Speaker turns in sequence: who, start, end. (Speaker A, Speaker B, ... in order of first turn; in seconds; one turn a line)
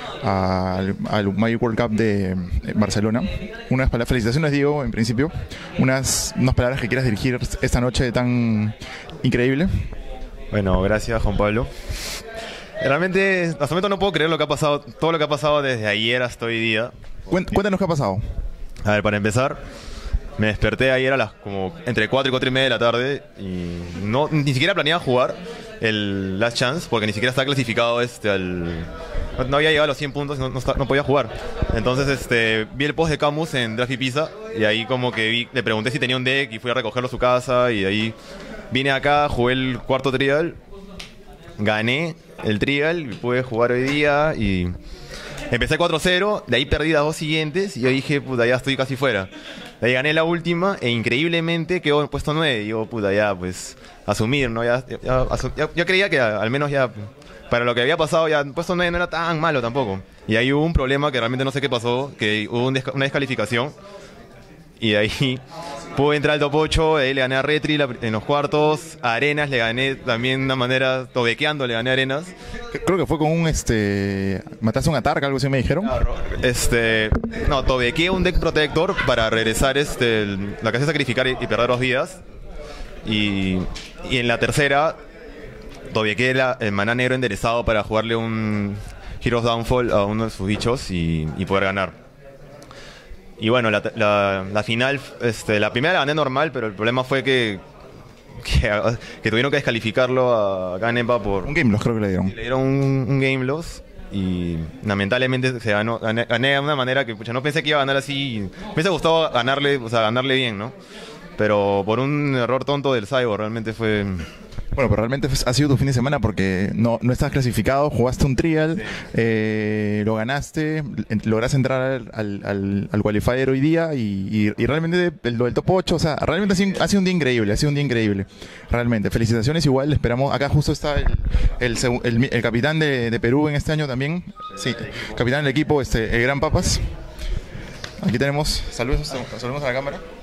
Speaker A: 0.2-9.7
Speaker B: 10.5-11.7
Speaker B: 12.8-16.9
Speaker A: 17.3-18.2
Speaker B: 18.8-19.6
Speaker B: 20.4-38.1
Speaker B: 38.7-40.6
Speaker B: 41.6-44.8
Speaker B: 45.5-49.3
Speaker B: 49.8-63.7
Speaker B: 64.8-65.4
Speaker B: 65.9-72.3
Speaker A: 72.7-75.9
Speaker B: 75.8-82.2
Speaker B: 83.0-85.0
Speaker B: 85.9-92.0
Speaker B: 93.4-97.6
Speaker B: 98.4-101.5
Speaker A: 101.4-102.3
Speaker B: 102.2-110.7
Speaker B: 111.4-114.3
Speaker A: 114.7-136.8
Speaker A: 138.0-140.0